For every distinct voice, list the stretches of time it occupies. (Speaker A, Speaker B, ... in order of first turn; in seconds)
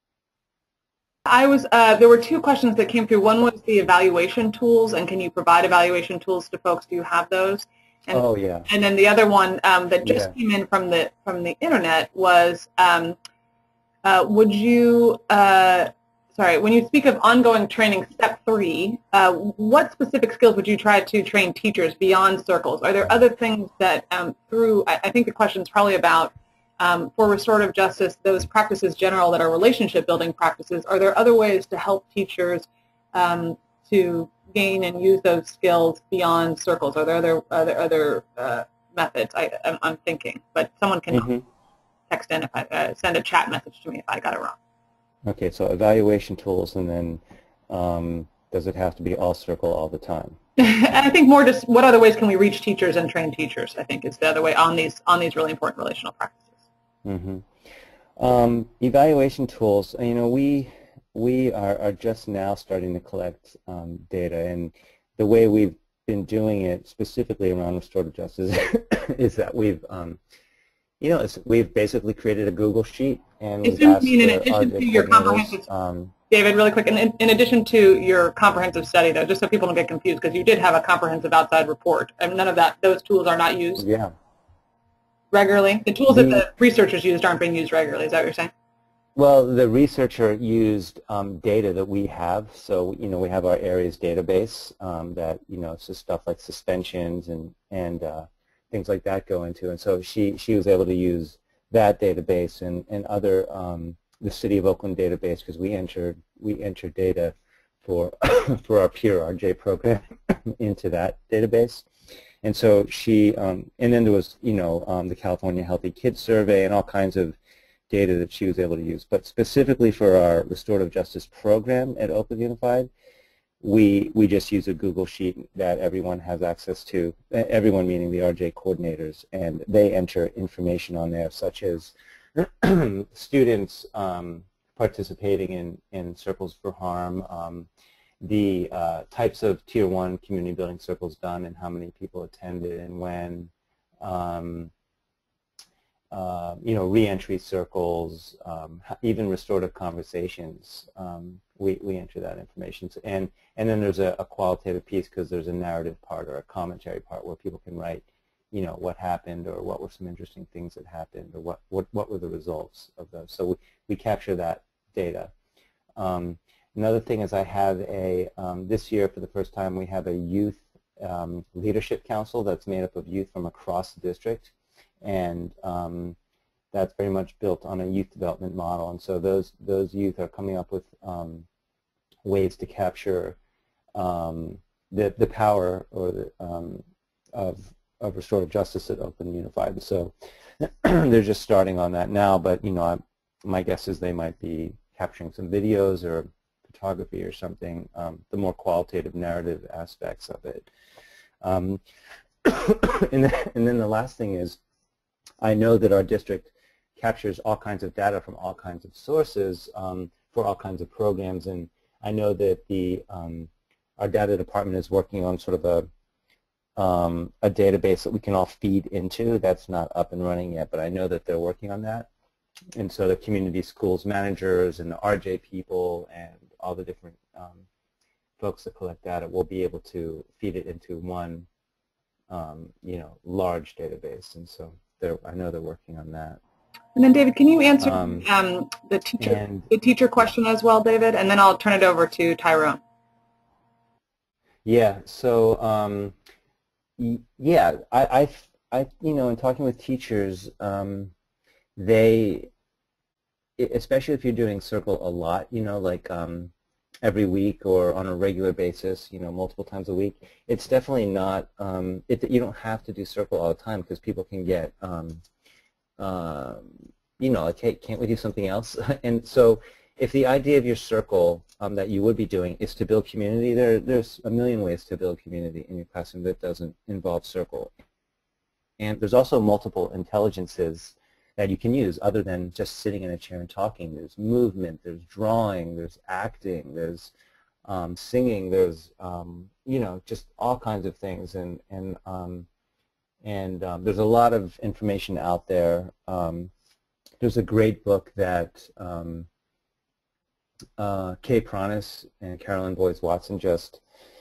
Speaker A: 1.2-13.2, 14.0-41.3, 42.1-44.5, 50.6-56.5, 73.6-75.6, 76.3-83.8, 85.3-88.5, 236.9-242.8
Speaker B: 8.1-8.7, 10.0-10.3, 41.1-41.4, 45.2-50.4, 57.0-57.5, 58.2-70.2, 71.0-76.1, 83.8-84.1, 86.1-86.4, 89.2-111.9, 112.4-117.4, 117.9-122.9, 123.6-137.7, 138.2-144.7, 146.1-165.3, 165.9-176.2, 176.7-181.4, 182.2-183.4, 183.9-200.7, 201.4-201.8, 202.4-204.6, 205.4-215.9, 216.8-222.1, 222.7-227.6, 228.4-231.5, 232.3-236.4, 237.8-238.3, 239.2-240.2, 244.6-246.1, 247.0-251.1, 251.8-252.5, 253.6-265.2, 266.0-277.7, 278.8-287.1, 287.6-292.5, 293.2-296.5, 297.2-299.3, 300.8-303.8